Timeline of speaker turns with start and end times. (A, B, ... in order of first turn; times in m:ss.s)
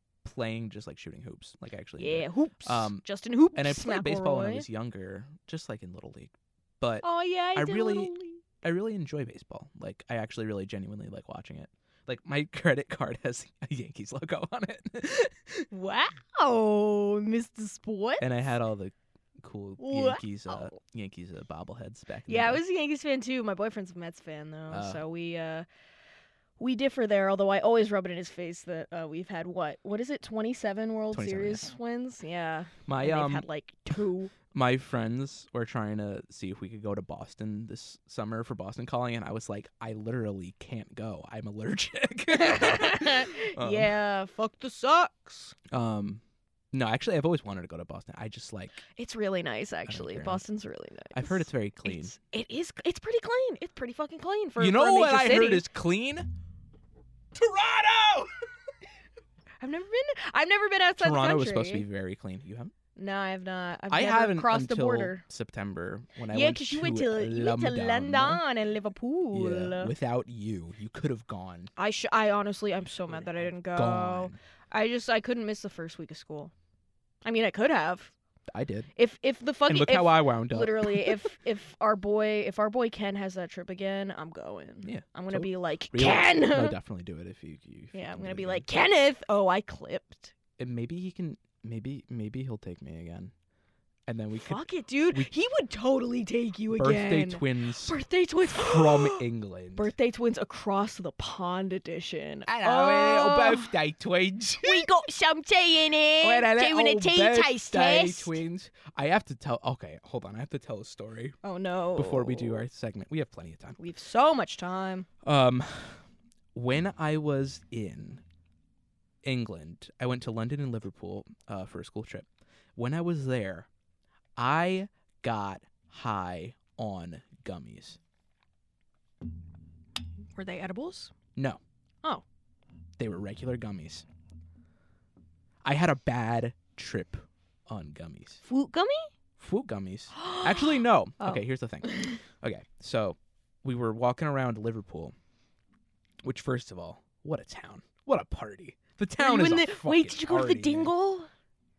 0:00.2-0:03.0 A
0:02.0-0:04.7 B
0:03.6-0:15.7 A
0:07.0-0:08.4 B
0:15.7-0:18.5 B
0:18.2-0:22.6 A
0:19.8-0:20.8 B
0:22.3-0:25.7 B
0:24.7-0:25.0 A
0:26.6-0:34.3 B
0:31.1-0:31.7 A
0:32.9-0:34.0 A
0:34.5-0:43.9 A
0:42.3-0:45.6 B
0:45.7-0:48.8 A
0:48.9-0:55.6 B
0:49.9-0:50.4 A
0:51.1-0:52.1 A
0:54.6-0:56.4 A
0:57.3-0:58.3 A
0:59.6-1:01.8 B
1:01.0-1:02.7 A
1:03.0-1:05.2 B
1:03.9-1:08.4 A
1:06.3-1:09.9 B
1:09.3-1:11.7 A
1:11.8-1:16.5 B
1:13.1-1:14.4 A
1:17.2-1:18.1 B
1:18.5-1:18.9 A
1:19.0-1:26.8 B
1:19.7-1:21.3 A
1:24.8-1:28.7 A
1:27.9-1:30.3 B
1:30.6-1:33.3 A
1:34.1-1:35.3 A
1:34.4-1:39.2 B
1:36.7-1:39.9 A
1:39.8-1:43.7 B
1:42.5-1:44.9 A
1:44.6-1:48.4 B
1:46.2-1:51.4 A
1:51.4-1:52.7 B
1:52.0-1:53.8 A
1:53.8-1:55.1 B
1:55.2-1:56.0 A
1:56.5-1:58.2 A
1:59.2-2:03.7 A
2:04.4-2:08.0 A
2:10.3-2:11.1 B
2:11.4-2:11.6 A
2:13.0-2:14.1 A
2:15.6-2:18.4 A
2:18.4-2:19.1 B
2:19.4-2:25.1 A
2:20.1-2:22.2 B
2:26.2-2:30.9 A
2:29.2-2:31.3 B